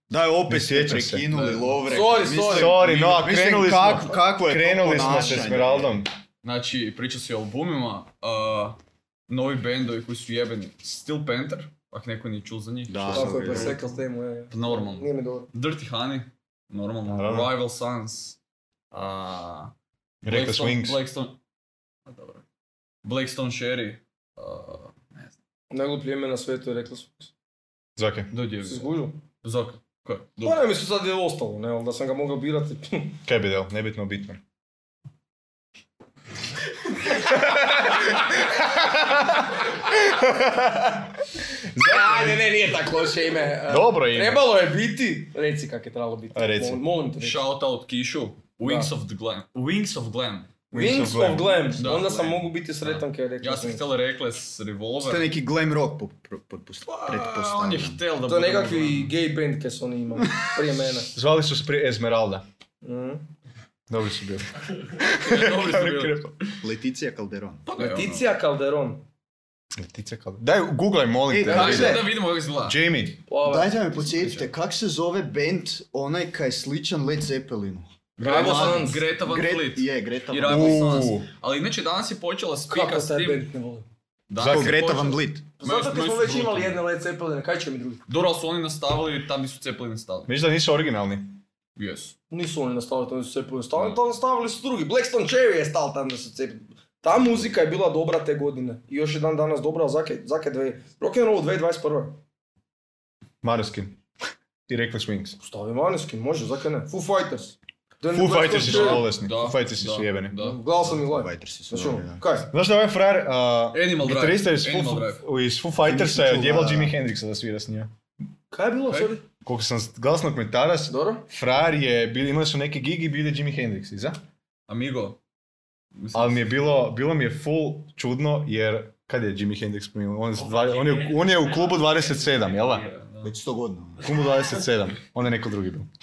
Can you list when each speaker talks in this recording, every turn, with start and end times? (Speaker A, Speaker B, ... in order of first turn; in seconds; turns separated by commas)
Speaker A: 0.1-6.0, Speaker B: 0.5-1.3, Speaker C: 1.3-2.3, Speaker D: 1.9-2.8, Speaker B: 2.4-6.1, Speaker D: 5.0-5.4, Speaker C: 6.4-8.8, Speaker C: 9.3-13.9, Speaker A: 12.9-13.8, Speaker D: 13.1-15.5, Speaker C: 14.5-18.4, Speaker B: 17.1-17.5, Speaker C: 18.9-19.7, Speaker B: 20.2-21.0, Speaker C: 20.3-21.4, Speaker C: 22.1-22.4, Speaker C: 23.0-25.3, Speaker D: 25.7-27.3, Speaker B: 28.0-28.3, Speaker C: 28.3-30.7, Speaker D: 28.7-29.2, Speaker D: 30.4-33.2, Speaker B: 33.3-34.4, Speaker B: 37.5-37.9, Speaker B: 38.6-39.2, Speaker B: 39.9-41.0, Speaker B: 41.7-42.4, Speaker D: 41.8-47.4, Speaker B: 43.7-44.4, Speaker B: 46.3-46.8, Speaker C: 47.2-50.5, Speaker D: 48.6-48.9, Speaker B: 50.7-51.7, Speaker D: 50.7-53.8, Speaker C: 51.8-55.3, Speaker A: 55.0-58.0, Speaker C: 56.9-59.1, Speaker D: 58.3-61.1, Speaker B: 61.1-62.4, Speaker D: 62.8-63.2, Speaker B: 63.9-66.4, Speaker C: 65.0-66.5, Speaker A: 66.6-67.6, Speaker C: 67.7-68.3, Speaker D: 67.8-69.0, Speaker B: 69.7-73.2, Speaker A: 71.3-72.1, Speaker C: 71.5-72.8, Speaker D: 73.3-73.8, Speaker A: 73.4-81.1, Speaker C: 74.0-74.5, Speaker C: 78.2-83.5, Speaker D: 78.2-79.0, Speaker B: 80.4-81.3, Speaker D: 82.7-83.8, Speaker C: 84.3-86.8, Speaker B: 84.4-84.8, Speaker A: 84.4-85.4, Speaker D: 85.6-88.0, Speaker C: 88.1-90.3, Speaker B: 90.3-91.4, Speaker C: 91.8-92.1, Speaker D: 92.3-102.2, Speaker B: 103.4-104.0, Speaker B: 104.7-105.4, Speaker D: 105.4-109.0, Speaker B: 108.1-110.3, Speaker C: 108.5-110.8, Speaker D: 110.4-112.5, Speaker A: 110.9-112.2, Speaker B: 112.5-117.9, Speaker C: 113.7-115.2, Speaker A: 115.8-116.9, Speaker D: 118.5-119.2, Speaker B: 119.5-124.2, Speaker D: 120.9-121.2, Speaker C: 124.7-125.2, Speaker C: 126.0-126.8, Speaker B: 126.1-132.9, Speaker C: 132.2-133.3, Speaker A: 133.2-134.1, Speaker B: 134.0-135.9